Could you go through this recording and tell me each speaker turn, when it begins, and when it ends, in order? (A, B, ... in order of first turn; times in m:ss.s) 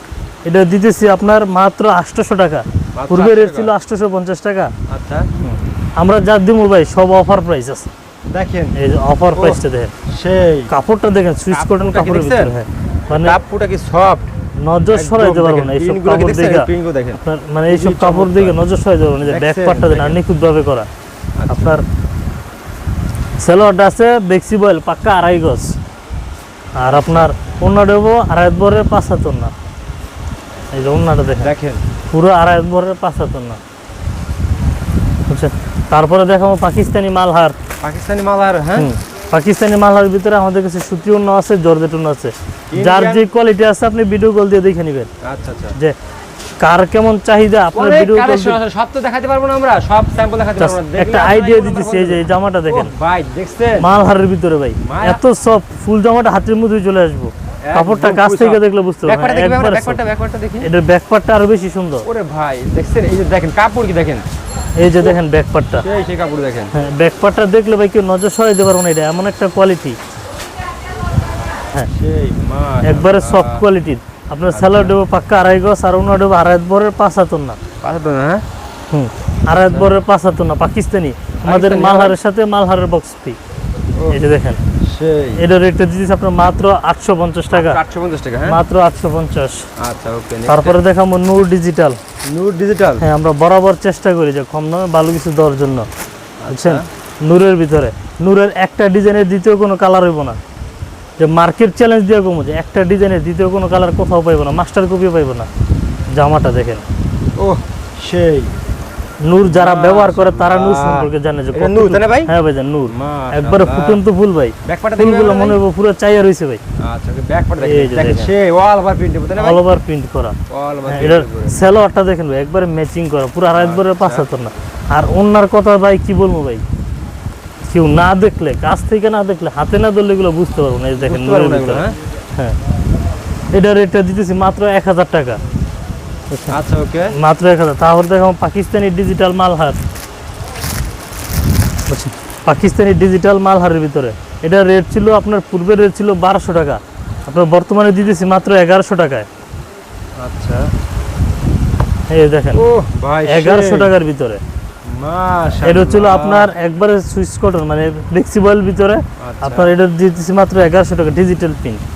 0:00.4-0:04.7 A
0:03.0-0:03.7 B
0:04.9-0:05.3 B
0:05.4-0:07.9 A
0:08.3-0:08.8 B
0:08.8-0:09.9 A
0:09.3-0:10.7 B
0:10.7-0:13.4 A
0:11.5-0:12.6 B
0:13.2-0:14.3 B
0:14.6-0:16.7 A
0:14.9-0:18.6 B
0:17.2-0:20.9 A
0:19.2-0:20.2 B
0:21.4-0:21.7 B
0:21.5-0:21.8 A
0:23.4-0:25.8 A
0:26.7-0:29.5 A
0:26.8-0:27.2 B
0:30.7-0:31.5 A
0:31.4-0:31.8 B
0:32.1-0:33.6 A
0:35.3-0:37.6 A
0:37.8-0:38.9 B
0:38.8-0:45.1 A
0:42.7-0:43.3 B
0:45.2-0:45.8 B
0:46.6-0:48.6 A
0:47.7-0:53.9 B
0:50.6-0:52.9 A
0:53.8-1:00.0 A
0:54.8-0:55.2 B
0:57.6-1:00.7 B
1:00.6-1:02.1 A
1:02.0-1:04.2 B
1:04.8-1:05.8 A
1:05.8-1:06.7 B
1:06.7-1:10.0 A
1:11.8-1:13.6 B
1:12.8-1:17.6 A
1:14.5-1:15.0 B
1:17.8-1:18.4 B
1:18.9-1:23.4 A
1:21.4-1:22.2 B
1:24.1-1:24.6 A
1:24.8-1:25.4 B
1:25.4-1:27.8 A
1:27.5-1:28.6 B
1:28.4-1:29.7 A
1:29.8-1:30.8 B
1:30.5-1:32.0 A
1:32.3-1:33.0 B
1:33.0-1:35.9 A
1:36.4-1:36.8 B
1:36.5-1:40.4 A
1:41.2-1:45.5 A
1:46.1-1:46.8 A
1:47.4-1:48.5 B
1:49.2-1:56.6 A
1:49.4-1:52.3 B
1:52.9-1:54.0 B
1:54.6-1:55.6 B
1:56.8-1:59.6 B
1:57.6-1:58.3 A
1:59.4-2:00.4 A
2:00.5-2:01.6 B
2:00.9-2:06.6 A
2:03.5-2:04.2 B
2:07.7-2:12.6 A
2:11.0-2:11.9 B
2:13.5-2:15.4 A
2:16.5-2:17.1 B
2:17.1-2:19.8 A
2:21.9-2:29.3 A
2:30.2-2:30.7 B
2:32.1-2:32.6 A
2:32.5-2:33.9 B
2:33.2-2:34.4 A
2:34.8-2:36.5 B
2:35.6-2:41.8 A
2:39.2-2:39.7 B